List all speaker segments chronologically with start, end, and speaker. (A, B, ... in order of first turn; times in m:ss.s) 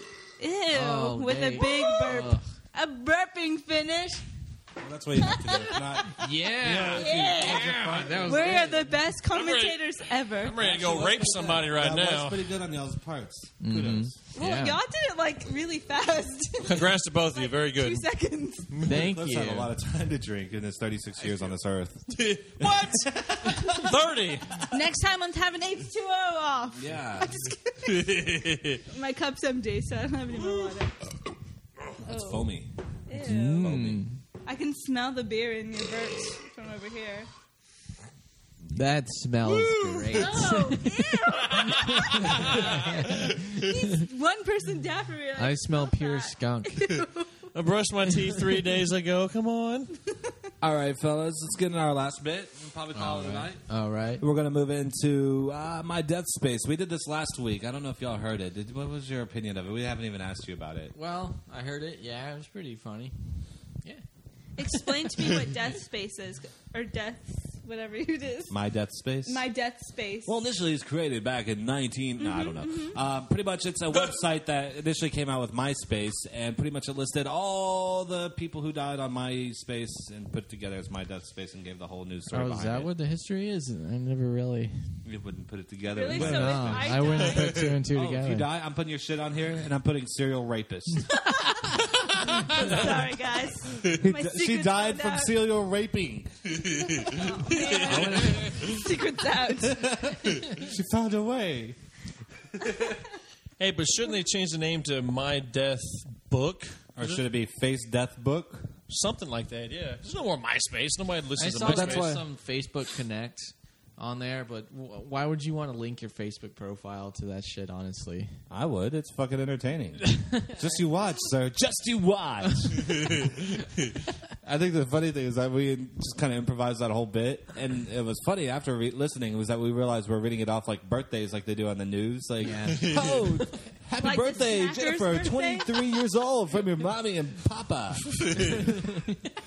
0:00.4-0:04.2 A
0:00.7-0:02.4 B
0:04.8-0:08.9 C
0:05.2-0:06.1 A
0:06.2-0:08.9 B
0:06.9-0:07.6 A
0:07.4-0:08.2 D
0:08.3-0:10.6 A
0:09.3-0:09.8 D
0:10.4-0:12.5 D
0:10.6-0:14.2 C
0:13.6-0:14.8 B
0:14.4-0:18.7 A
0:16.6-0:18.1 D
0:18.8-0:19.7 B
0:18.9-0:24.0 C
0:22.1-0:24.6 D
0:24.7-0:28.1 A
0:26.7-0:27.5 C
0:27.9-0:28.8 D
0:28.9-0:30.9 A
0:32.0-0:32.7 C
0:32.0-0:32.5 A
0:33.1-0:33.7 A
0:33.1-0:34.2 B
0:33.3-0:34.0 C
0:34.4-0:37.3 A
0:38.7-0:40.9 B
0:40.1-0:47.5 A
0:41.8-0:43.6 B
0:45.4-0:47.0 B
0:47.5-0:49.9 D
0:50.6-0:53.6 C
0:52.9-0:54.2 B
0:54.2-1:01.0 C
1:00.9-1:04.0 B
1:04.6-1:08.6 A
1:08.5-1:09.4 C
1:09.2-1:10.4 A
1:10.2-1:22.9 C
1:12.2-1:13.0 A
1:22.3-1:24.9 B
1:25.0-1:31.1 C
1:25.9-1:27.7 A
1:26.1-1:28.5 B
1:31.1-1:31.7 A
1:32.3-1:32.9 C
1:32.5-1:35.3 A
1:32.6-1:32.9 D
1:33.8-1:38.8 C
1:37.0-1:40.4 A
1:37.6-1:38.6 D
1:39.6-1:41.8 C
1:42.5-1:43.0 C
1:43.6-1:47.2 D
1:47.0-1:48.7 C
1:48.9-1:52.2 D
1:51.4-1:58.3 B
1:51.6-1:52.2 C
1:58.5-2:03.6 C
2:04.4-2:19.0 C
2:12.4-2:12.9 B
2:12.7-2:13.5 D
2:14.0-2:16.0 A